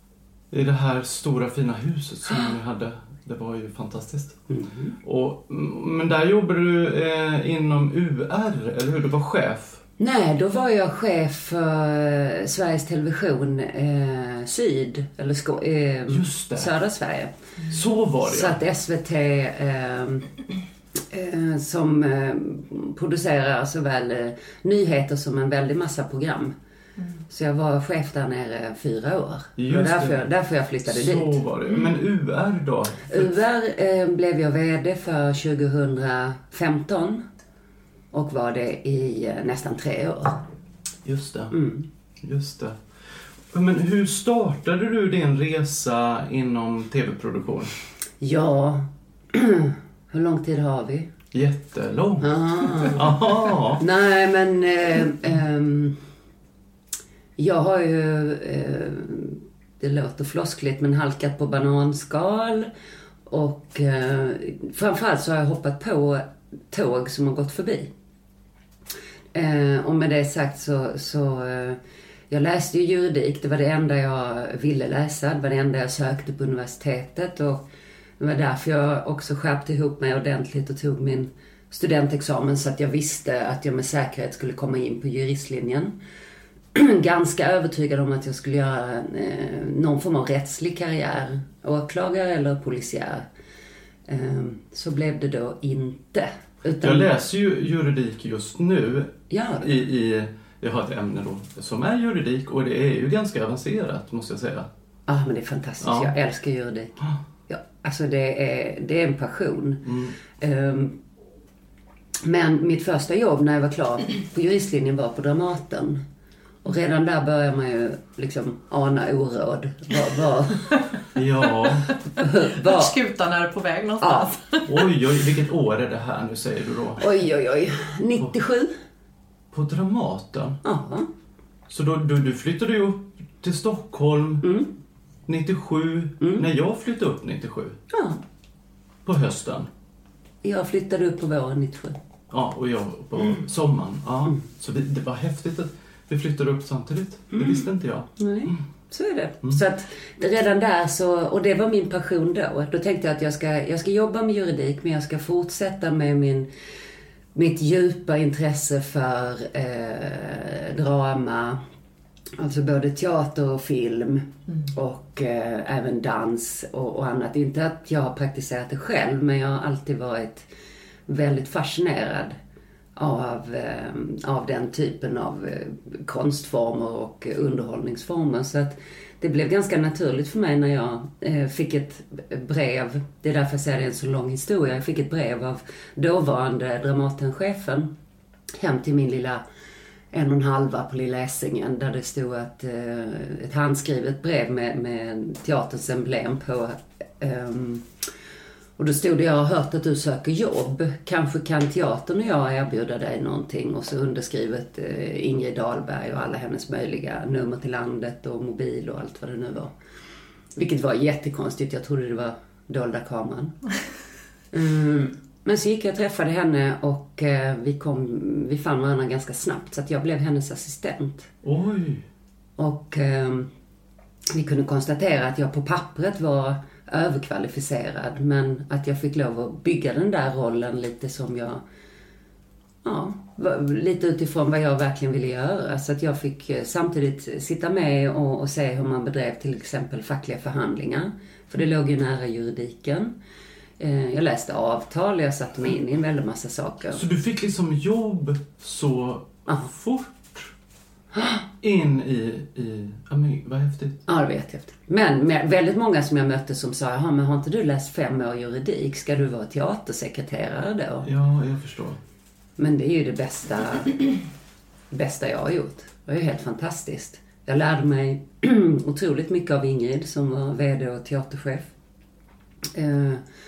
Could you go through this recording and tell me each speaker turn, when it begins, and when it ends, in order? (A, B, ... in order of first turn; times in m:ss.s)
0:00.5-0:04.4 A
0:04.5-0:04.9 B
0:05.0-0:09.8 A
0:10.0-0:17.3 B
0:16.1-0:16.7 A
0:17.7-0:18.6 A
0:18.2-0:20.3 B
0:21.1-0:26.5 B
0:27.3-0:31.4 B
0:29.6-0:30.2 A
0:30.9-0:33.3 A
0:33.1-0:37.2 B
0:38.1-0:40.4 B
0:41.0-0:41.5 A
0:41.5-0:41.9 B
0:42.2-0:42.8 A
0:43.5-0:47.7 A
0:48.2-0:51.1 B
0:51.3-0:53.8 A
0:52.2-0:53.2 B
0:53.8-0:56.0 B
0:57.4-1:02.7 B
1:03.3-1:07.9 B
1:09.3-1:11.8 B
1:12.3-1:17.6 B
1:18.2-1:26.0 B
1:26.7-1:33.2 B
1:34.1-1:37.1 B
1:36.8-1:44.7 A
1:39.3-1:39.7 B
1:45.1-1:47.0 B
1:45.8-1:46.1 A
1:47.5-1:51.0 B
1:49.8-1:50.1 A
1:52.2-1:56.0 B
1:56.6-2:00.8 B
2:01.1-2:01.9 A
2:02.2-2:03.0 B
2:02.5-2:04.8 C
2:04.0-2:04.3 B
2:04.7-2:07.0 A
2:07.0-2:08.7 B
2:09.5-2:10.6 A
2:10.6-2:11.1 B
2:11.7-2:14.4 A
2:14.4-2:14.7 B
2:15.3-2:17.8 A
2:16.2-2:16.4 B
2:17.9-2:18.2 B
2:19.0-2:19.7 A
2:20.4-2:22.0 B
2:22.3-2:28.6 A
2:27.3-2:27.6 B
2:28.2-2:36.5 B
2:37.3-2:41.6 B
2:42.4-2:50.5 B
2:51.1-2:52.4 B
2:53.0-3:07.9 B
3:08.6-3:09.4 B
3:10.1-3:17.9 B
3:18.8-3:29.7 B
3:30.6-3:33.6 B
3:34.5-3:41.3 B
3:41.4-3:42.0 A
3:42.6-3:43.5 B
3:44.3-3:51.6 B
3:52.8-4:03.1 B
4:03.8-4:07.0 B
4:06.9-4:10.5 A
4:11.1-4:11.4 B
4:11.6-4:14.0 A
4:14.1-4:21.1 B
4:21.0-4:22.0 A
4:22.6-4:24.2 B
4:24.9-4:31.7 B
4:32.7-4:33.2 B